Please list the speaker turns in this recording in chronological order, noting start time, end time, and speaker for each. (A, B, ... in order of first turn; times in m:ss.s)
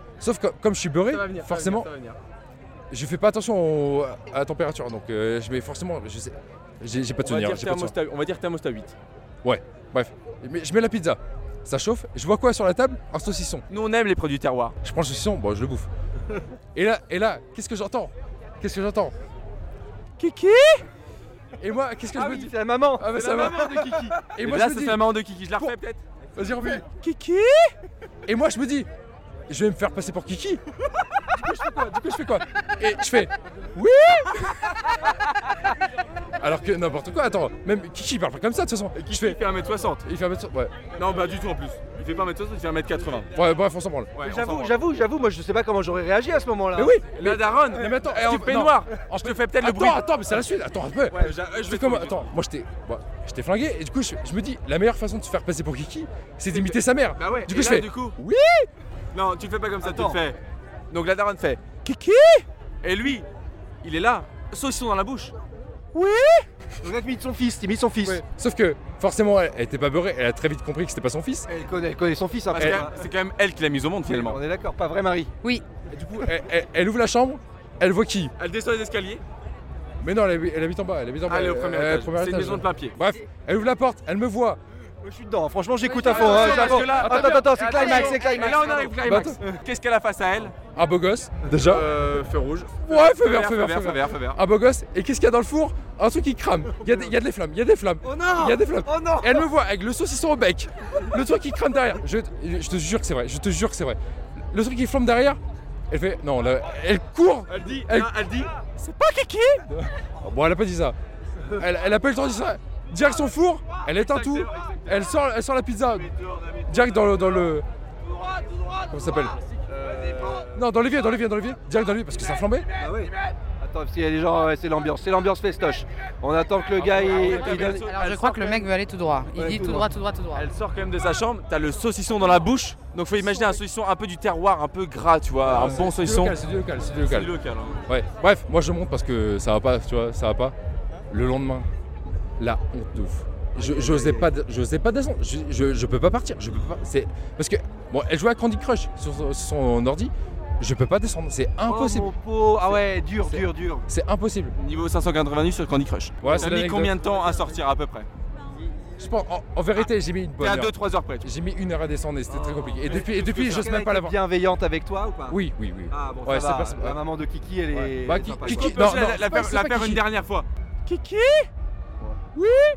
0:00.2-0:01.9 A
0:01.0-0:02.2 B
0:02.9-0:08.0 A
0:07.2-0:09.0 B
0:09.4-0:13.6 A
0:13.7-0:14.8 B
0:14.8-0:15.9 A
0:16.8-0:19.1 A
0:20.2-0:20.6 A
0:20.2-0:20.5 B
0:21.6-0:25.8 A
0:22.1-0:24.3 C
0:23.1-0:23.6 B
0:24.3-0:26.2 B
0:26.4-0:27.5 A
0:26.9-0:27.4 B
0:28.3-0:28.9 A
0:29.5-0:30.6 A
0:31.3-0:34.8 A
0:36.4-0:39.4 A
0:39.0-0:40.0 B
0:40.0-0:40.8 A
0:41.0-0:43.3 B
0:43.4-0:44.1 A
0:44.1-0:44.8 B
0:44.2-0:46.9 C
0:46.8-0:58.7 A
0:47.0-0:50.0 B
0:51.1-0:52.3 B
0:56.5-0:58.2 B
0:59.1-1:00.4 B
0:59.8-1:00.2 C
1:00.9-1:01.8 B
1:01.8-1:02.4 A
1:02.8-1:03.3 B
1:03.8-1:05.4 B
1:06.8-1:08.2 C
1:08.1-1:11.5 A
1:11.5-1:13.0 C
1:12.6-1:14.4 B
1:14.0-1:15.3 C
1:15.9-1:18.3 A
1:18.4-1:19.2 B
1:20.0-1:24.6 A
1:21.3-1:23.0 B
1:25.0-1:29.6 C
1:25.8-1:26.8 D
1:26.1-1:30.6 B
1:26.3-1:28.2 A
1:27.8-1:29.0 D
1:29.0-1:29.4 A
1:30.7-1:31.9 A
1:31.6-1:34.4 B
1:32.8-1:44.0 A
1:38.0-1:39.5 C
1:44.5-1:45.4 A
1:45.9-1:48.2 A
1:47.5-1:49.6 B
1:49.7-1:51.0 A
1:51.6-1:56.1 A
1:53.8-1:55.0 B
1:56.7-1:57.6 A
1:58.9-1:59.4 A
1:59.7-2:00.6 B
2:00.5-2:02.7 A
2:02.8-2:07.9 C
2:06.8-2:07.5 A
2:06.9-2:08.7 B
2:07.5-2:10.5 D
2:09.4-2:09.9 C
2:10.3-2:16.4 B
2:15.5-2:17.3 A
2:17.0-2:17.9 B
2:17.9-2:20.5 A
2:21.1-2:21.7 A
2:22.4-2:32.1 A
2:23.6-2:24.3 C
2:31.7-2:33.8 C
2:33.2-2:34.5 A
2:34.6-2:38.1 B
2:36.2-2:37.0 A
2:39.0-2:44.1 A
2:39.8-2:41.3 B
2:42.3-2:45.4 C
2:42.8-2:43.7 B
2:45.3-2:47.0 A
2:45.9-2:48.8 C
2:48.0-2:50.0 A
2:48.4-2:51.5 B